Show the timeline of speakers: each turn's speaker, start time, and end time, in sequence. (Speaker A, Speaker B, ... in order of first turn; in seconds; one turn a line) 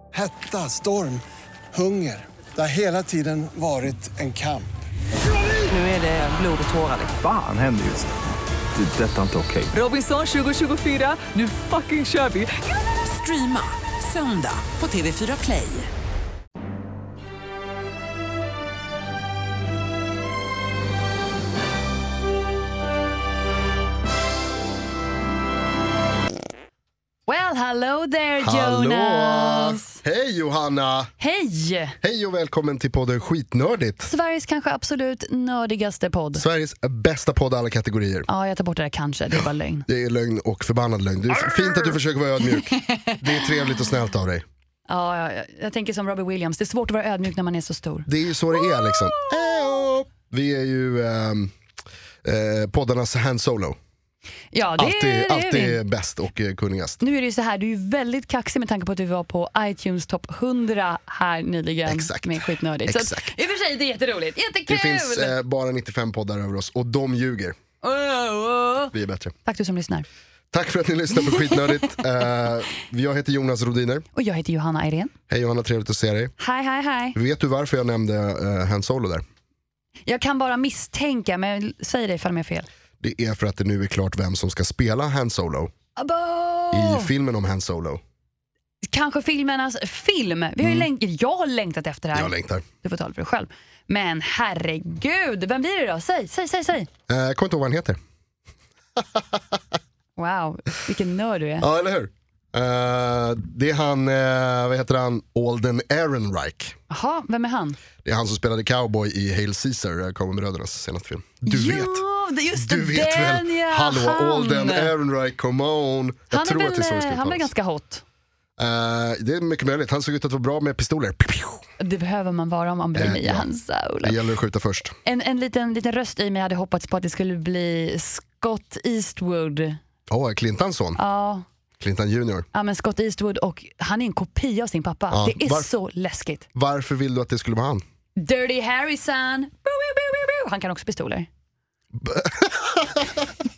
Speaker A: 0.1-4.7
Speaker B: 5.7-7.2
Speaker C: 7.2-8.1
Speaker C: 8.7-9.7
Speaker B: 9.7-15.9
Speaker D: 27.3-30.0
Speaker E: 28.4-31.1
Speaker D: 31.2-32.0
Speaker E: 32.0-34.1
Speaker D: 34.0-36.4
Speaker E: 36.3-38.3
Speaker D: 38.3-39.9
Speaker E: 39.3-44.4
Speaker D: 41.4-42.0
Speaker D: 42.5-43.2
Speaker D: 44.9-49.9
Speaker E: 48.0-51.5
Speaker E: 52.2-53.8
Speaker D: 54.5-55.8
Speaker E: 54.8-57.0
Speaker D: 57.0-65.4
Speaker E: 61.9-63.3
Speaker E: 64.7-67.5
Speaker D: 67.8-68.9
Speaker E: 68.9-69.3
Speaker D: 69.4-70.0
Speaker E: 70.5-74.0
Speaker D: 71.3-71.7
Speaker D: 74.1-75.1
Speaker E: 75.3-76.3
Speaker D: 76.4-77.2
Speaker E: 77.1-79.2
Speaker D: 80.0-82.7
Speaker E: 83.0-85.7
Speaker D: 86.0-87.1
Speaker E: 86.7-88.0
Speaker D: 88.8-96.9
Speaker E: 90.6-90.9
Speaker E: 92.1-92.6
Speaker E: 97.1-98.0
Speaker E: 99.0-99.6
Speaker D: 100.2-101.7
Speaker E: 101.6-106.8
Speaker D: 106.9-107.8
Speaker E: 108.0-112.0
Speaker D: 111.5-114.9
Speaker E: 112.5-117.5
Speaker D: 116.3-118.0
Speaker E: 118.6-121.6
Speaker D: 121.8-124.2
Speaker E: 122.9-123.5
Speaker E: 124.0-125.0
Speaker D: 125.0-129.8
Speaker E: 130.1-131.0
Speaker D: 130.9-131.4
Speaker E: 131.8-132.4
Speaker D: 132.5-136.4
Speaker E: 135.1-135.7
Speaker E: 136.5-137.8
Speaker D: 138.2-141.3
Speaker E: 141.9-143.4